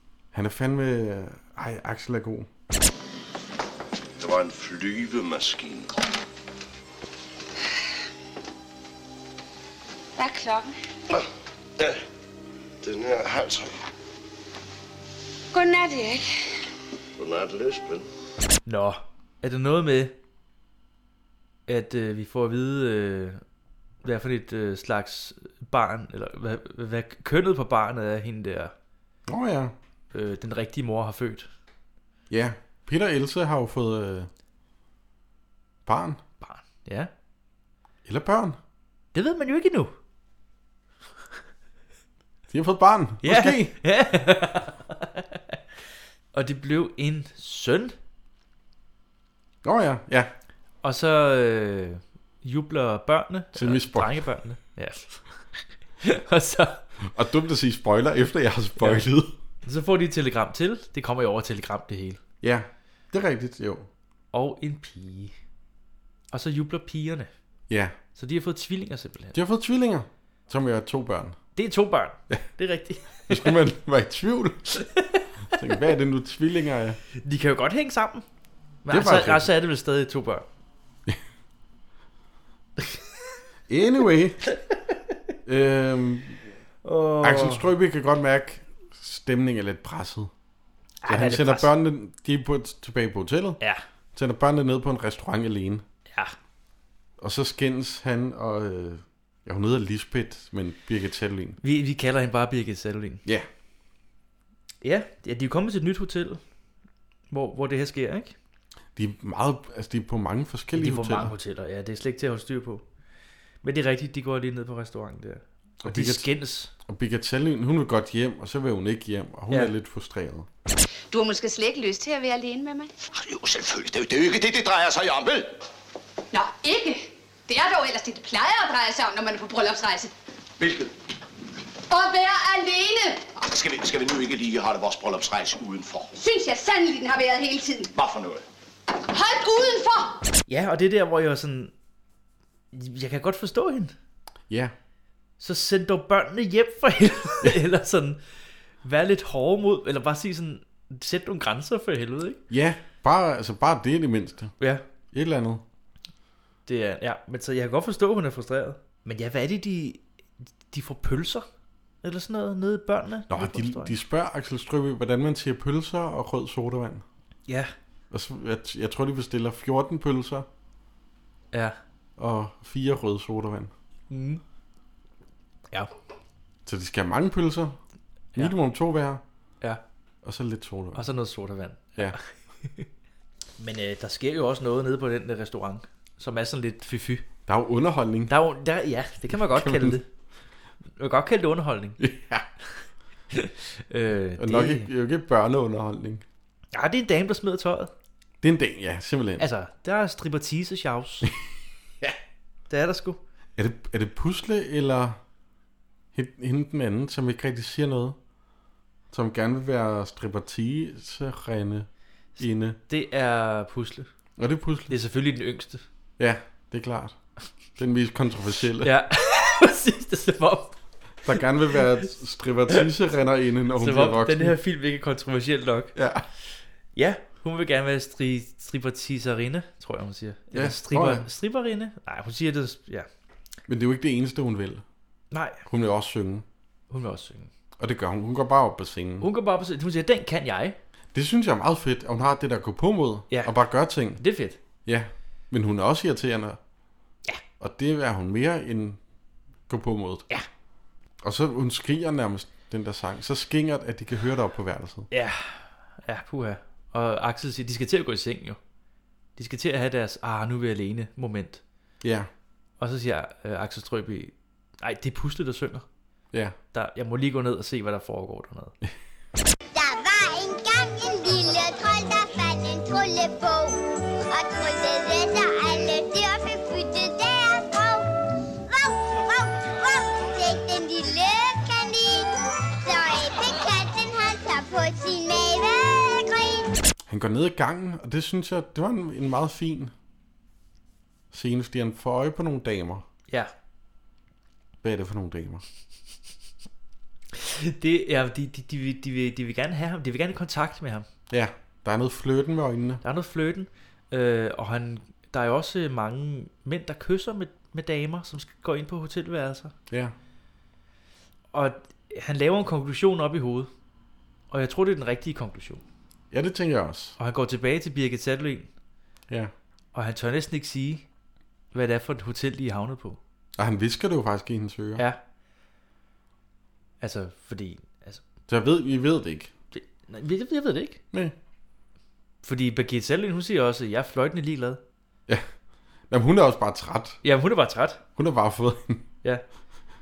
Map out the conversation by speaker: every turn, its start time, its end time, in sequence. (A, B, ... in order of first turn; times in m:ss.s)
0:00.3-0:02.5 A
0:04.2-0:05.9 B
0:10.2-0:10.7 C
0:12.8-0:13.7 B
0:15.5-0:16.3 C
0:17.2-0:18.0 B
0:18.6-0:20.1 D
0:21.7-0:23.4 D
0:24.0-0:28.7 D
0:29.3-0:29.7 A
0:30.1-0:31.5 D
0:32.3-0:34.3 A
0:35.8-0:36.2 A
0:36.4-0:37.1 D
0:38.0-0:38.6 A
0:39.1-0:39.9 D
0:42.5-0:43.7 A
0:43.2-0:45.4 D
0:46.3-0:48.0 D
0:49.6-0:50.3 A
0:50.8-0:55.2 D
0:53.5-0:54.3 A
0:56.0-0:56.8 D
0:57.0-0:59.3 A
0:58.8-0:59.0 D
0:59.6-1:02.2 D
1:02.4-1:03.9 A
1:04.3-1:05.3 D
1:06.3-1:07.3 D
1:07.7-1:07.9 A
1:08.2-1:09.4 D
1:09.3-1:11.4 A
1:11.6-1:13.6 D
1:13.3-1:14.7 A
1:14.7-1:15.7 D
1:15.5-1:17.0 A
1:17.2-1:18.2 D
1:18.8-1:20.4 D
1:18.9-1:19.5 A
1:23.7-1:24.4 A
1:25.4-1:26.4 A
1:26.8-1:27.7 D
1:27.2-1:30.3 A
1:31.0-1:31.7 D
1:31.1-1:33.6 A
1:34.1-1:35.8 A
1:37.2-1:41.6 A
1:41.6-1:43.2 D
1:44.8-1:46.4 D
1:47.3-1:48.3 D
1:49.0-1:51.3 A
1:50.7-1:52.8 D
1:53.6-1:56.7 D
1:55.8-1:56.3 A
1:56.9-2:00.5 A
2:01.1-2:02.9 C
2:03.1-2:05.5 E
2:06.3-2:10.1 C
2:10.6-2:10.9 E
2:11.9-2:13.2 C
2:13.4-2:16.1 E
2:16.2-2:17.9 C
2:17.9-2:18.4 E
2:19.1-2:20.2 C
2:20.5-2:21.7 D
2:22.7-2:23.9 D
2:24.5-2:24.7 A
2:25.4-2:28.2 D
2:28.8-2:32.4 D
2:32.5-2:34.5 A
2:35.1-2:35.6 A
2:36.6-2:40.0 D
2:40.7-2:41.5 D
2:42.0-2:43.9 D
2:43.3-2:47.0 A
2:48.1-2:50.4 A
2:51.5-2:51.8 D
2:52.2-2:53.7 A
2:54.1-2:54.4 D
2:56.6-2:57.8 A
2:58.4-2:59.2 A
3:00.2-3:01.1 A
3:00.9-3:02.9 D
3:03.6-3:07.2 D
3:07.5-3:08.3 A
3:08.3-3:10.0 D
3:09.3-3:10.0 A
3:11.0-3:12.0 D
3:12.0-3:12.4 A
3:13.3-3:14.9 D
3:14.4-3:16.2 A
3:16.7-3:17.9 D
3:18.4-3:19.4 A
3:19.4-3:21.3 D
3:22.7-3:23.2 D
3:23.6-3:25.2 A
3:26.1-3:28.2 A
3:29.1-3:31.9 A
3:32.4-3:32.8 A
3:32.4-3:34.1 D
3:34.4-3:34.9 A
3:34.9-3:35.8 D
3:36.2-3:37.2 A
3:37.8-3:38.9 A
3:38.8-3:40.7 D
3:41.2-3:44.6 A
3:43.8-3:46.0 D
3:45.9-3:46.2 A
3:46.9-3:53.1 D
3:50.5-3:51.2 A
3:53.7-3:54.8 A
3:55.3-3:55.6 D
3:55.7-3:56.4 A
3:56.9-3:57.5 D
3:57.8-3:59.2 A
3:59.2-4:00.8 D
4:01.1-4:04.2 A
4:04.2-4:04.6 D
4:04.8-4:06.6 A
4:07.6-4:09.0 A
4:09.7-4:10.2 A
4:11.2-4:15.1 A
4:15.1-4:18.6 D
4:19.4-4:21.6 D
4:22.0-4:22.3 A
4:22.8-4:25.8 D
4:26.7-4:28.7 D
4:29.7-4:38.1 F
4:38.7-4:46.7 F
4:47.1-4:49.9 A
4:51.3-4:53.0 A
4:54.8-4:55.6 A
4:57.3-5:01.1 D
5:01.3-5:03.0 A
5:03.0-5:09.7 D
5:09.9-5:10.1 A
5:11.5-5:13.7 D
5:14.5-5:15.8 D
5:16.3-5:17.2 A
5:17.2-5:18.7 D
5:19.9-5:21.0 D
5:21.7-5:23.2 D
5:23.6-5:25.0 A
5:27.0-5:28.2 D
5:28.5-5:29.5 A
5:29.7-5:31.0 D
5:32.4-5:34.8 D
5:36.1-5:37.2 A
5:37.2-5:38.0 D
5:38.2-5:39.0 A